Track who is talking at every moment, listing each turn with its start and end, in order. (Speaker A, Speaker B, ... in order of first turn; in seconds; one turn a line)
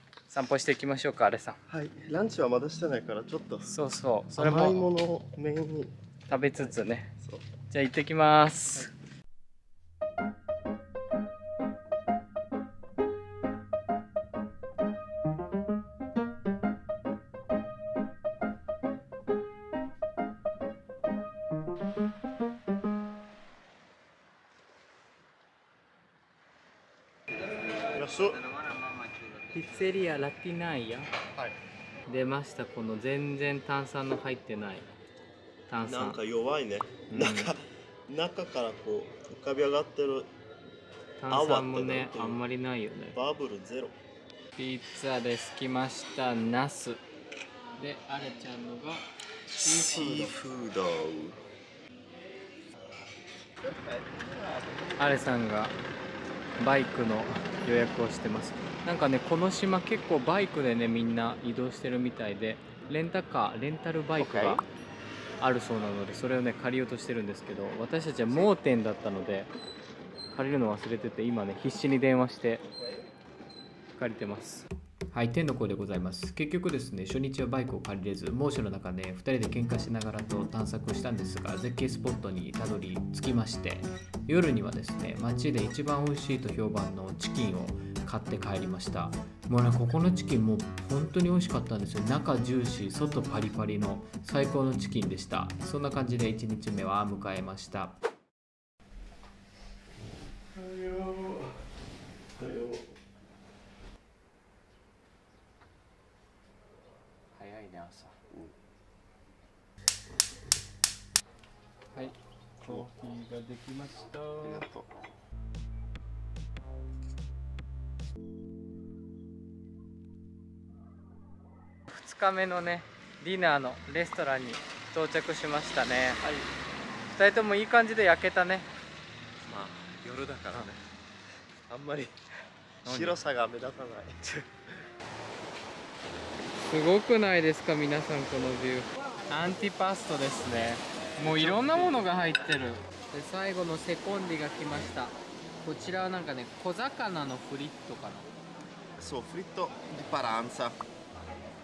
Speaker A: 0.3-1.6
Speaker B: 1.7-3.7
Speaker A: 3.6-4.9
Speaker B: 4.3-5.9
Speaker A: 6.3-7.1
Speaker B: 6.5-7.4
Speaker A: 7.7-8.9
Speaker B: 27.9-28.4
Speaker A: 28.5-31.1
Speaker A: 32.1-34.9
Speaker A: 35.7-36.2
Speaker B: 35.8-40.3
Speaker A: 37.1-37.5
Speaker A: 41.2-43.1
Speaker B: 41.3-42.4
Speaker B: 43.1-44.0
Speaker A: 44.5-47.0
Speaker A: 47.8-50.3
Speaker B: 49.5-51.4
Speaker B: 53.6-55.1
Speaker A: 55.0-55.7
Speaker A: 56.6-64.7
Speaker B: 64.2-64.6
Speaker A: 65.4-69.5
Speaker B: 68.3-68.5
Speaker A: 70.3-72.6
Speaker A: 74.0-98.0
Speaker B: 100.0-101.6
Speaker B: 102.3-102.9
Speaker A: 107.3-108.2
Speaker A: 111.9-114.6
Speaker B: 114.4-114.9
Speaker A: 121.9-126.2
Speaker B: 126.2-126.5
Speaker A: 127.1-128.7
Speaker B: 129.4-130.8
Speaker B: 131.7-132.1
Speaker A: 132.8-133.2
Speaker B: 132.8-134.2
Speaker A: 136.7-148.3
Speaker B: 141.2-142.1
Speaker B: 149.0-150.8